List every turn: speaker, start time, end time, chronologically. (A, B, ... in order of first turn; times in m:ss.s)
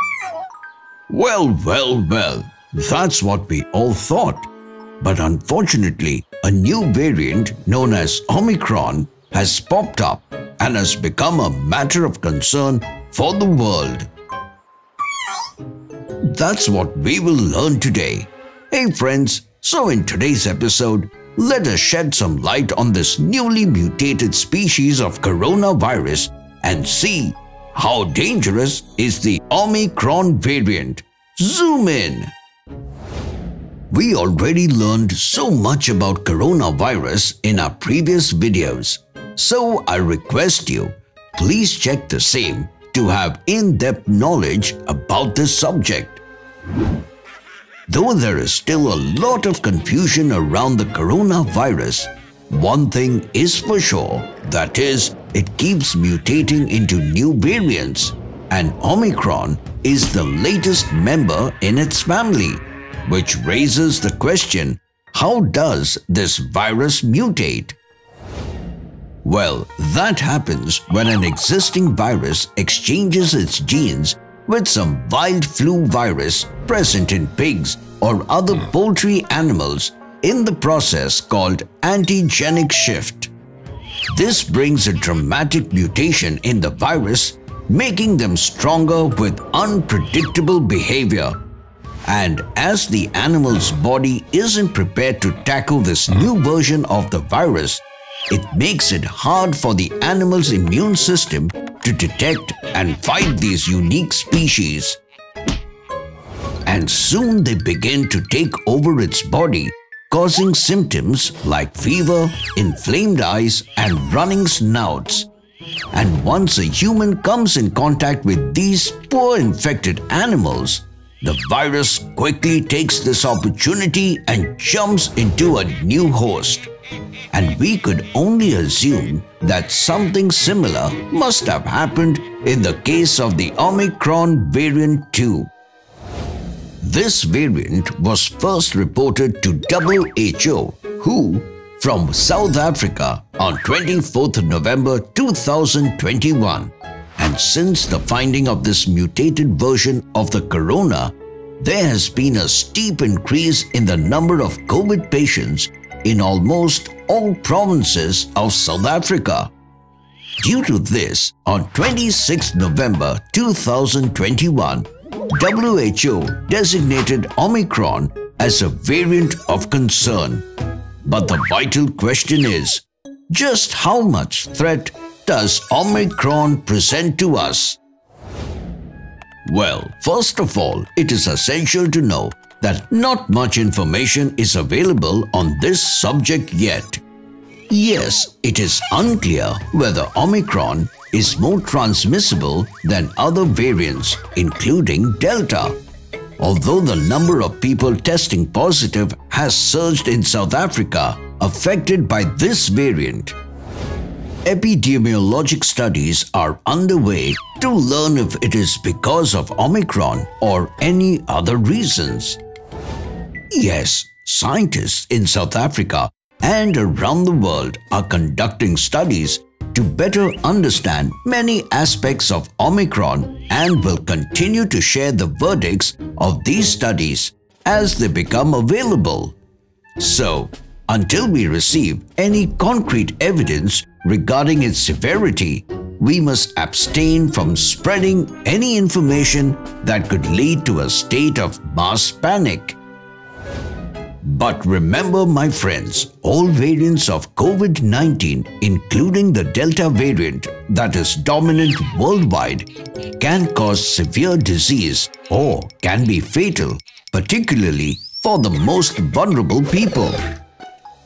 0:01.1-0:04.5 A
0:05.0-0:14.1 A
0:16.2-0:32.3 A
0:33.9-0:46.2 A
0:47.9-1:07.8 A
1:09.2-1:23.3 A
1:24.1-1:31.4 A
1:32.0-1:45.0 A
1:46.6-1:55.3 A
1:55.9-2:06.7 A
2:07.3-2:15.5 A
2:16.8-2:39.5 A
2:40.4-2:50.4 A
2:51.0-2:57.8 A
2:59.4-3:07.0 A
3:07.7-3:15.8 A
3:16.4-3:23.4 A
3:24.4-3:32.4 A
3:33.5-3:49.4 A
3:50.0-4:02.8 A
4:04.2-4:20.2 A